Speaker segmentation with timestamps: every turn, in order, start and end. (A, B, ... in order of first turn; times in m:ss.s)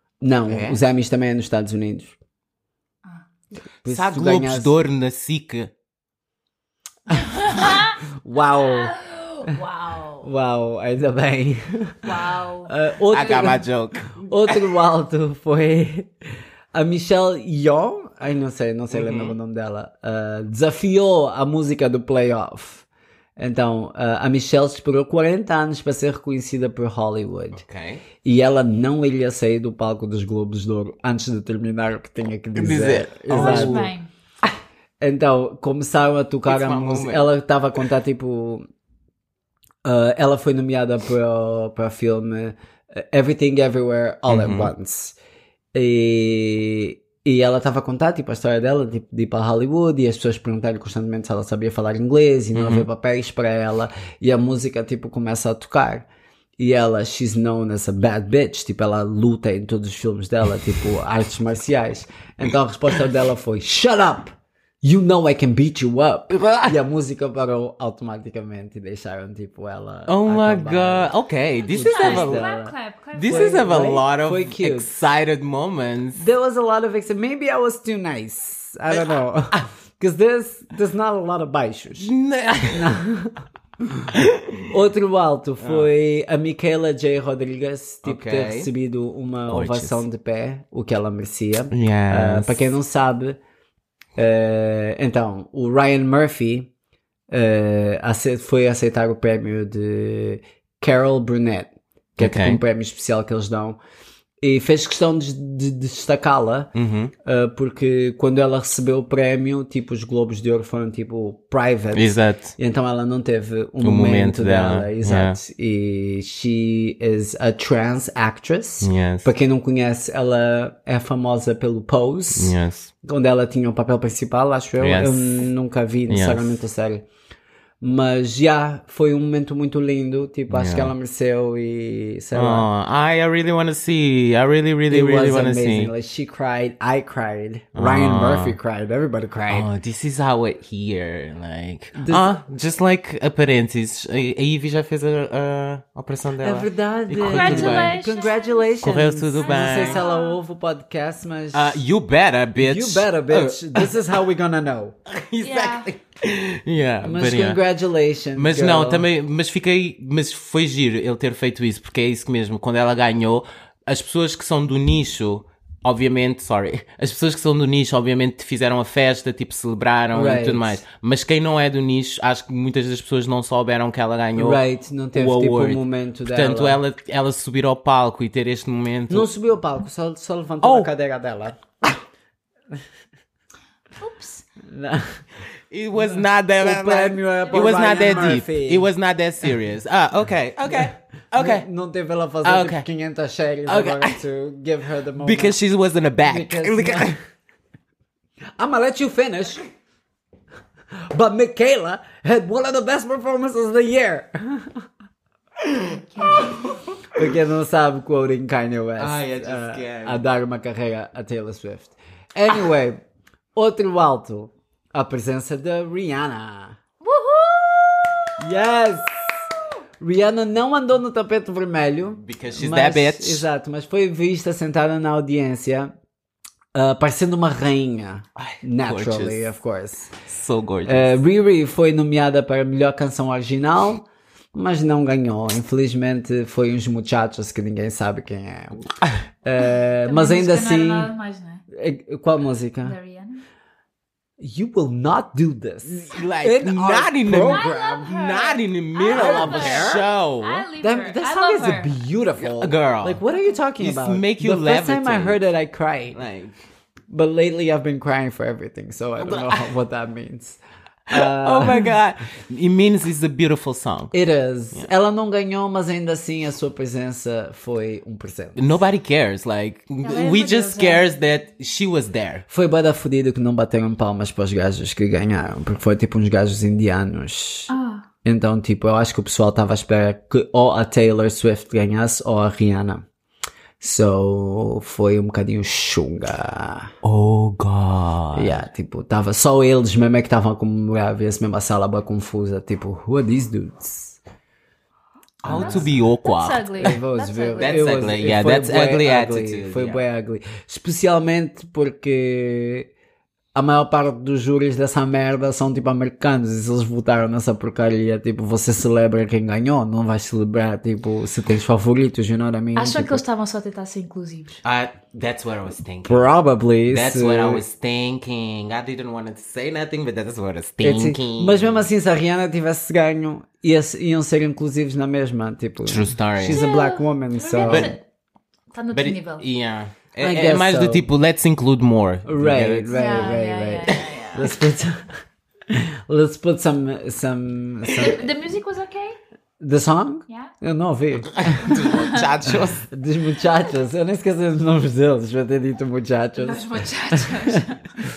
0:00.2-0:02.2 A
0:00.5-0:00.8 B
0:03.8-0:04.7 A
0:03.8-0:05.7 B
0:07.1-0:09.0 A
0:07.2-0:08.0 C
0:08.6-0:10.2 C
0:10.2-0:12.1 A
0:12.0-0:12.7 C
0:12.6-0:16.1 A
0:13.1-0:14.6 B
0:16.7-0:22.8 A
0:18.9-0:19.4 B
0:23.4-0:27.6 A
0:27.5-0:28.0 B
0:28.2-0:33.9 A
0:32.5-0:33.9 B
0:33.3-0:34.1 C
0:35.0-0:38.6 A
0:36.4-0:37.3 B
0:39.8-0:45.1 A
0:44.3-0:44.7 B
0:45.7-0:56.0 A
0:52.5-0:52.9 B
0:56.6-1:11.1 A
1:06.3-1:06.8 B
1:10.1-1:12.5 B
1:11.7-1:13.8 C
1:11.7-1:12.7 A
1:13.1-1:16.2 B
1:13.2-1:14.9 A
1:16.2-1:22.1 A
1:22.0-1:22.9 B
1:22.7-1:23.4 A
1:24.1-1:24.6 B
1:24.7-1:33.4 A
1:25.6-1:25.9 B
1:28.0-1:28.7 B
1:29.5-1:30.0 B
1:31.7-1:32.7 B
1:34.2-1:36.7 A
1:37.3-1:43.8 A
1:42.2-1:42.6 B
1:44.4-1:46.7 A
1:46.7-1:47.1 B
1:47.2-2:07.0 A
1:51.9-1:52.6 B
1:53.8-1:55.4 B
1:58.8-1:59.3 B
2:02.3-2:02.9 B
2:04.8-2:05.4 B
2:06.1-2:06.6 B
2:07.8-2:12.7 A
2:10.5-2:10.9 B
2:12.3-2:15.9 B
2:14.9-2:19.7 A
2:17.7-2:18.6 B
2:19.5-2:28.0 B
2:22.0-2:22.3 A
2:26.4-2:31.8 A
2:27.2-2:30.4 C
2:28.8-2:30.0 B
2:31.5-2:33.9 B
2:32.6-2:35.0 A
2:35.0-2:37.6 B
2:35.4-2:35.9 C
2:37.0-2:39.0 A
2:38.4-2:54.6 B
2:50.1-2:50.8 A
2:54.4-2:56.8 A
2:55.1-2:59.3 B
2:59.1-3:01.6 A
3:00.6-3:00.9 B
3:04.0-3:04.4 C
3:04.6-3:05.2 A
3:05.7-3:11.7 B
3:06.6-3:08.9 A
3:07.5-3:08.3 C
3:10.7-3:15.6 A
3:12.4-3:12.8 B
3:13.7-3:14.2 B
3:15.2-3:17.2 B
3:16.2-3:17.2 A
3:18.6-3:19.6 A
3:21.1-3:24.8 A
3:26.1-3:26.6 C
3:26.3-3:26.8 B
3:27.1-3:33.0 A
3:29.0-3:30.2 B
3:33.5-3:36.8 A
3:37.0-3:38.3 C
3:38.4-3:39.3 A
3:40.0-3:45.9 A
3:42.2-3:43.4 B
3:46.7-3:50.1 A
3:48.4-3:49.5 B
3:50.2-3:51.1 B
3:50.8-3:58.8 A
3:59.4-4:01.1 A
4:00.0-4:01.6 C
4:01.7-4:03.0 A
4:02.8-4:03.4 C
4:04.4-4:08.1 A
4:05.8-4:10.7 B
4:07.4-4:12.0 C
4:09.1-4:10.1 A
4:10.8-4:16.2 A
4:12.4-4:13.2 B
4:13.8-4:15.4 B
4:16.1-4:16.5 B
4:17.1-4:20.6 A
4:19.2-4:19.7 B
4:21.1-4:24.1 B
4:21.1-4:21.9 A
4:24.1-4:28.8 A
4:28.6-4:32.4 B
4:30.0-4:31.1 C
4:32.5-4:37.7 A
4:37.7-4:38.0 C
4:38.2-4:43.0 A
4:43.8-4:46.9 A
4:47.0-4:48.6 B
4:48.3-4:54.2 A
4:55.4-4:57.0 B
4:55.4-4:55.9 A
4:55.5-4:57.9 C
4:56.8-5:02.9 A
4:57.6-5:00.0 B
5:03.5-5:13.2 A
5:12.8-5:14.6 C
5:14.6-5:16.2 B
5:16.0-5:17.6 A
5:16.9-5:21.9 B
5:20.8-5:27.9 A
5:25.8-5:26.6 B
5:26.5-5:28.0 C
5:27.6-5:27.9 B
5:28.7-5:29.4 C
5:28.9-5:33.4 B
5:30.2-5:31.0 A
5:32.2-5:38.3 A
5:32.9-5:34.5 C
5:37.9-5:39.2 C
5:39.6-5:41.9 A
5:41.3-5:42.8 B
5:41.7-5:42.3 C
5:42.5-5:47.6 A
5:46.4-5:48.0 C